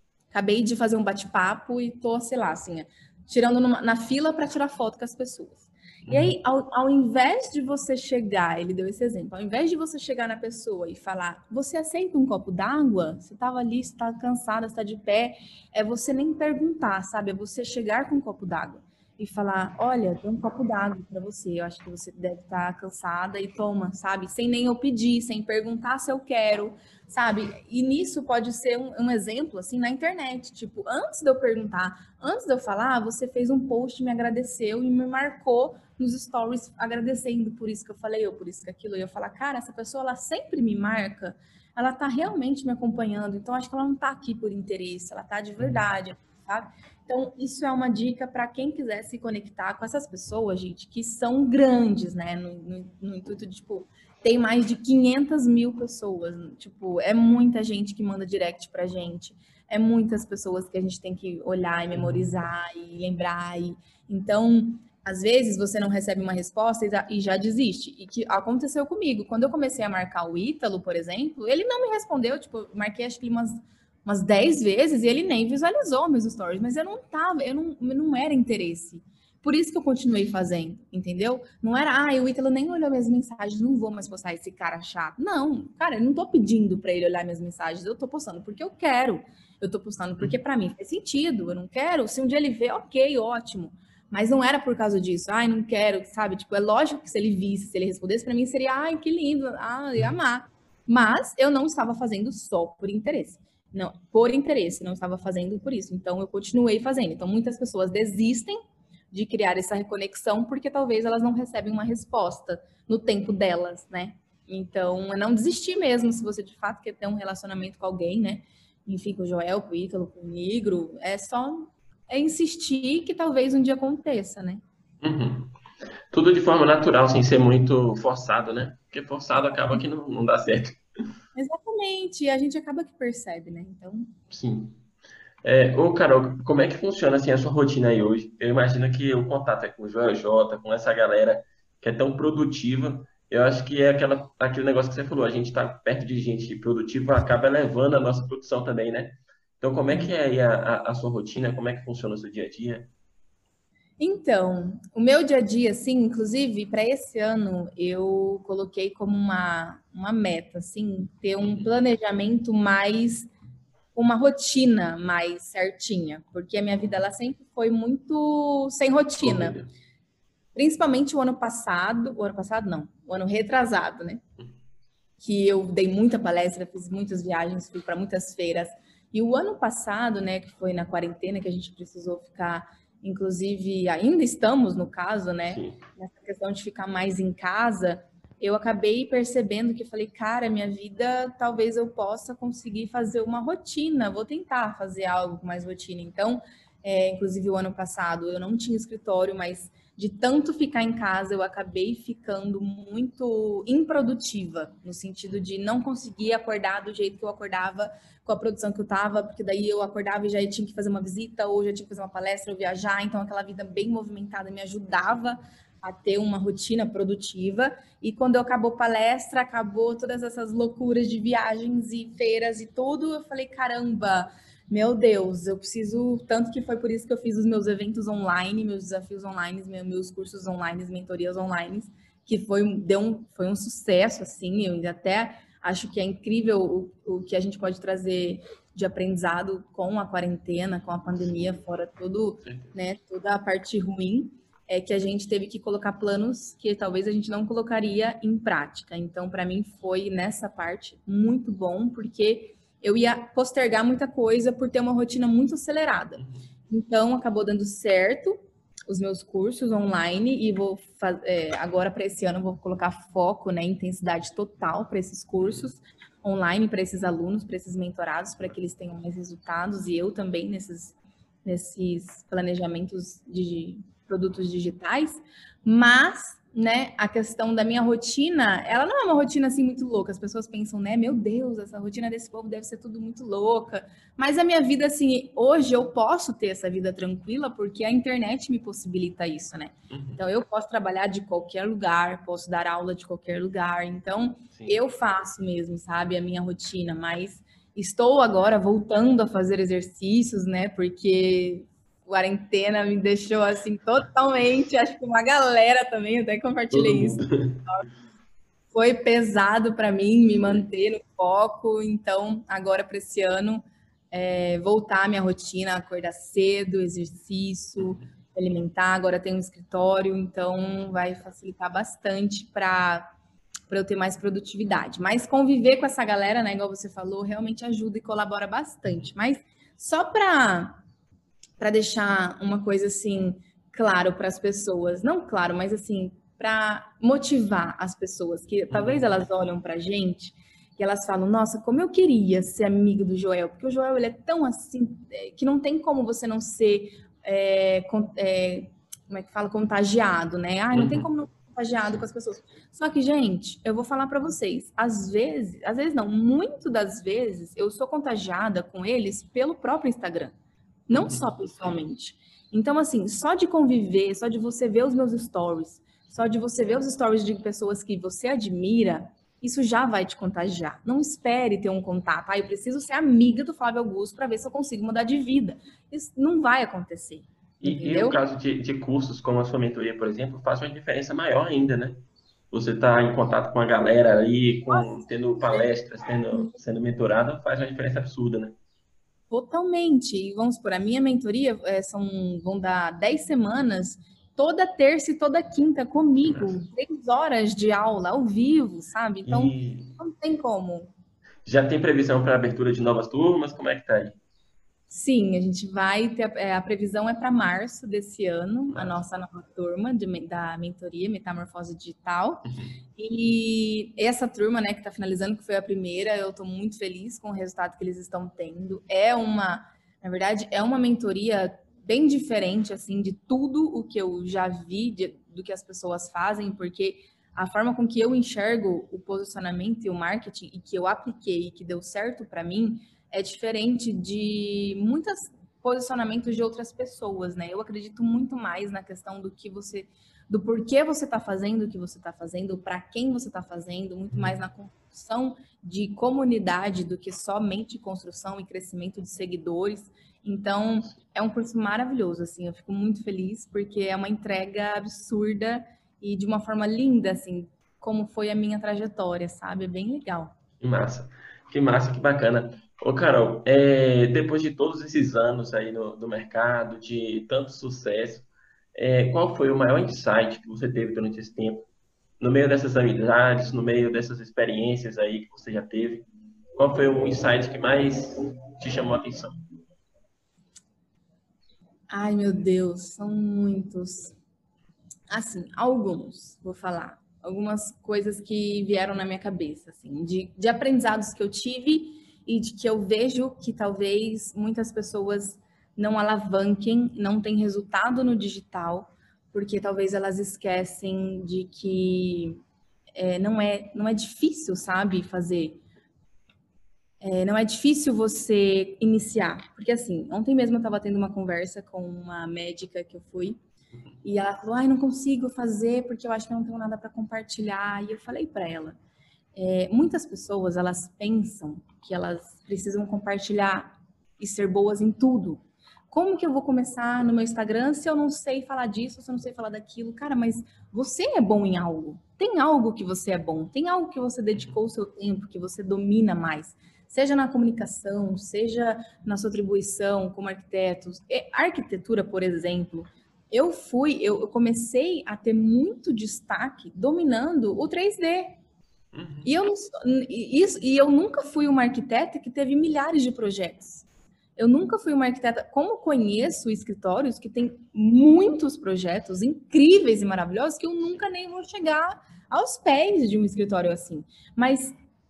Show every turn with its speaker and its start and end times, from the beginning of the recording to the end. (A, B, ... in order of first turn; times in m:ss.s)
0:00.3-1:48.6 A
0:06.1-0:06.4 B
1:01.9-1:02.4 B
1:49.1-2:04.6 A
2:05.0-2:05.5 B
2:06.1-2:10.8 B
2:11.4-2:14.1 A
2:14.3-2:14.8 B
2:15.4-2:32.9 B
2:34.0-2:43.3 A
2:41.4-2:41.7 B
2:44.0-2:49.6 A
2:46.8-2:47.0 B
2:49.2-2:49.7 B
2:50.6-2:54.2 A
2:55.2-4:18.4 A
3:05.5-3:05.8 B
4:02.4-4:02.8 B
4:16.2-4:16.5 B
4:18.9-5:07.9 A
4:25.4-4:25.7 B
4:49.9-4:50.2 B
5:06.7-5:07.7 B
5:08.7-5:23.1 A
5:17.8-5:18.0 B
5:23.7-5:30.8 A
5:31.6-6:00.3 A
5:38.7-5:39.1 B
5:50.7-5:51.1 B
6:00.9-6:18.2 A
6:00.9-6:01.2 B
6:17.6-6:28.6 B
6:25.4-6:25.7 A
6:29.3-6:40.9 A
6:36.2-6:36.6 B
6:39.3-6:40.0 B
6:41.4-6:44.2 B
6:44.9-7:40.4 A
6:48.7-6:49.0 B
6:52.4-6:52.8 B
7:24.1-7:24.4 B
7:40.6-7:51.7 B
7:52.2-7:59.4 B
8:01.9-8:04.2 A
8:05.1-8:22.4 A
8:23.0-8:25.6 A
8:27.0-8:33.4 A
8:34.0-8:38.8 A
8:39.4-9:08.4 A
9:08.9-9:09.3 B
9:09.2-9:24.8 A